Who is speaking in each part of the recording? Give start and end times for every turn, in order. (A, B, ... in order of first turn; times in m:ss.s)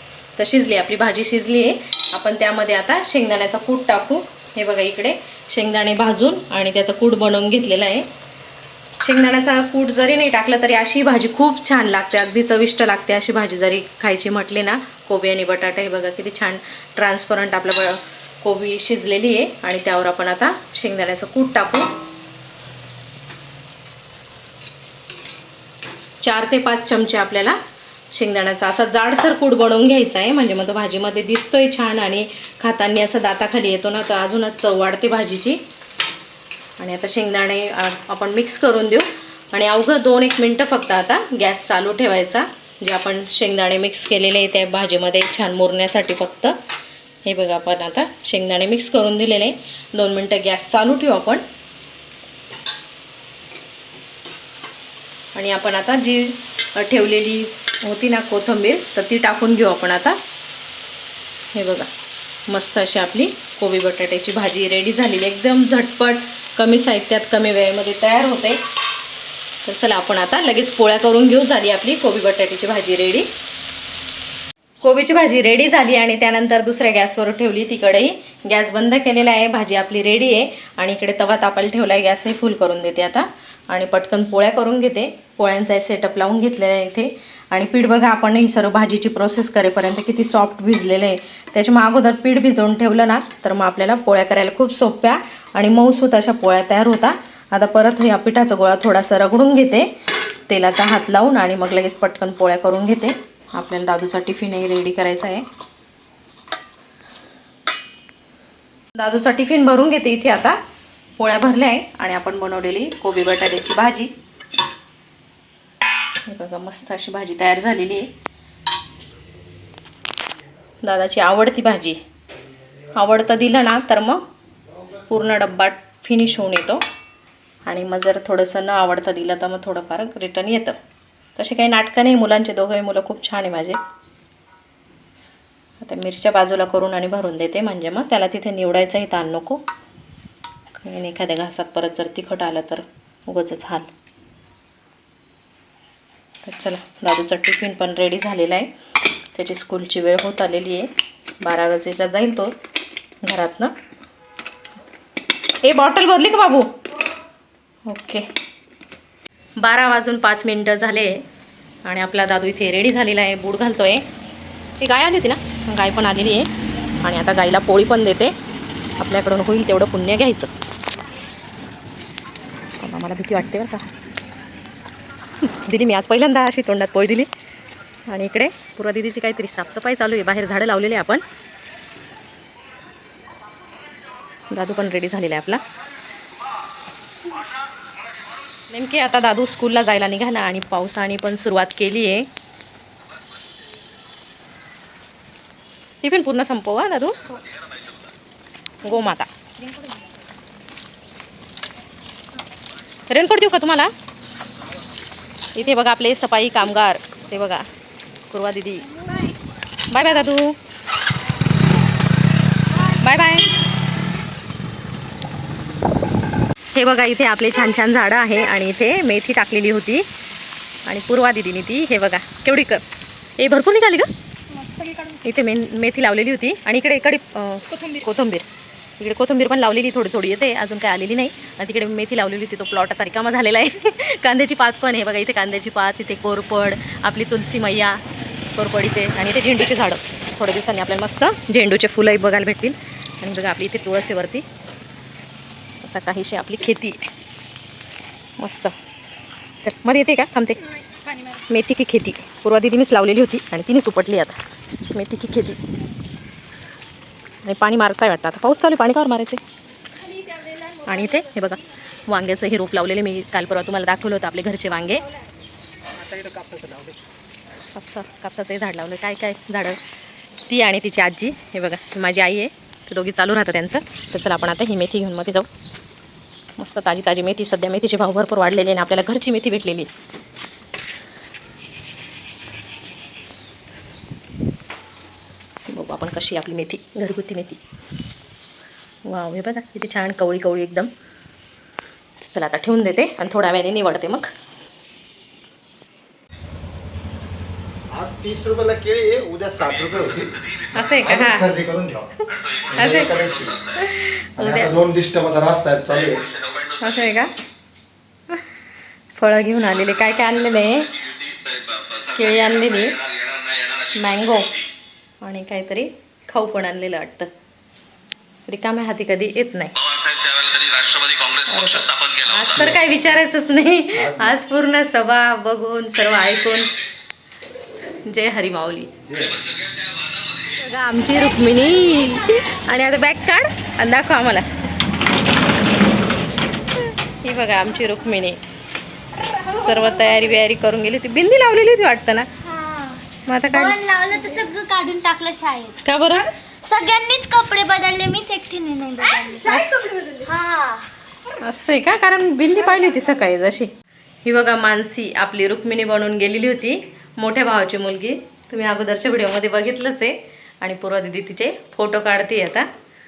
0:00.4-0:08.0 A
0:09.0-0:21.9 A
0:26.2-0:27.6 A
0:28.1-0:35.6 A
0:36.8-0:46.6 A
0:47.2-0:51.4 A
0:55.3-1:00.2 A
1:01.5-1:01.9 A
1:02.5-1:08.6 A
1:09.6-1:13.3 A
1:14.8-1:39.9 A
1:40.5-1:45.4 A
1:48.9-1:50.6 A
1:51.2-1:54.1 A
1:56.2-1:58.1 A
2:00.8-2:02.0 A
2:02.9-2:04.2 A
2:04.9-2:06.8 A
2:07.6-2:10.8 A
2:11.4-2:13.8 A
2:15.8-2:19.6 A
2:20.8-2:23.9 A
2:26.4-2:28.7 A
2:29.3-2:30.9 A
2:31.4-2:32.5 A
2:33.2-2:33.7 A
2:35.6-2:36.8 A
2:37.9-2:38.3 A
2:39.6-2:41.2 A
2:41.8-2:44.0 A
2:44.8-2:46.5 A
2:47.0-2:48.3 A
2:49.0-2:50.5 A
2:52.8-2:53.8 A
2:55.4-2:57.3 A
2:58.1-3:01.2 A
3:04.5-3:05.6 A
3:08.7-3:12.3 A
3:16.0-3:17.4 A
3:18.8-3:19.3 A
3:19.7-3:20.0 B
3:23.1-3:23.9 A
3:25.5-3:27.6 A
3:28.3-3:29.3 A
3:29.9-3:30.6 A
3:32.8-3:33.5 A
3:36.7-3:40.0 A
3:40.8-3:42.8 A
3:43.4-3:44.1 A
3:44.5-3:45.2 B
3:45.2-3:48.5 A
3:49.0-3:58.0 A
3:58.5-4:04.4 A
4:05.8-4:07.0 A
4:08.4-4:08.7 A
4:09.6-4:10.7 A
4:11.3-4:15.6 A
4:17.4-4:19.4 A
4:20.0-4:20.8 B
4:20.8-4:25.1 A
4:26.0-4:26.9 C
4:27.7-4:29.8 A
4:30.5-4:35.5 A
4:36.6-4:39.9 A
4:45.7-4:47.6 A
4:49.0-4:50.9 A
4:52.2-4:54.3 A
4:57.9-5:02.2 C
5:00.7-5:01.5 A
5:02.7-5:03.7 C
5:02.7-5:04.7 A
5:04.4-5:06.3 C
5:06.7-5:07.3 A
5:09.2-5:11.0 A
5:11.2-5:12.0 B
5:11.9-5:13.1 A
5:13.1-5:13.8 B
5:13.9-5:14.6 A
5:15.2-5:17.3 A
5:18.5-5:19.7 A
5:19.9-5:21.4 B
5:21.4-5:26.8 A
5:24.0-5:24.3 C
5:28.0-5:28.9 A
5:29.1-5:29.4 C
5:29.5-5:30.2 B
5:30.4-5:34.5 A
5:36.7-5:38.4 A
5:39.3-5:42.3 A
5:42.4-5:45.8 D
5:43.2-5:43.8 A
5:45.8-5:46.3 A
5:46.4-5:50.9 D
5:49.4-5:50.2 A
5:51.3-5:53.7 A
5:54.2-6:02.7 A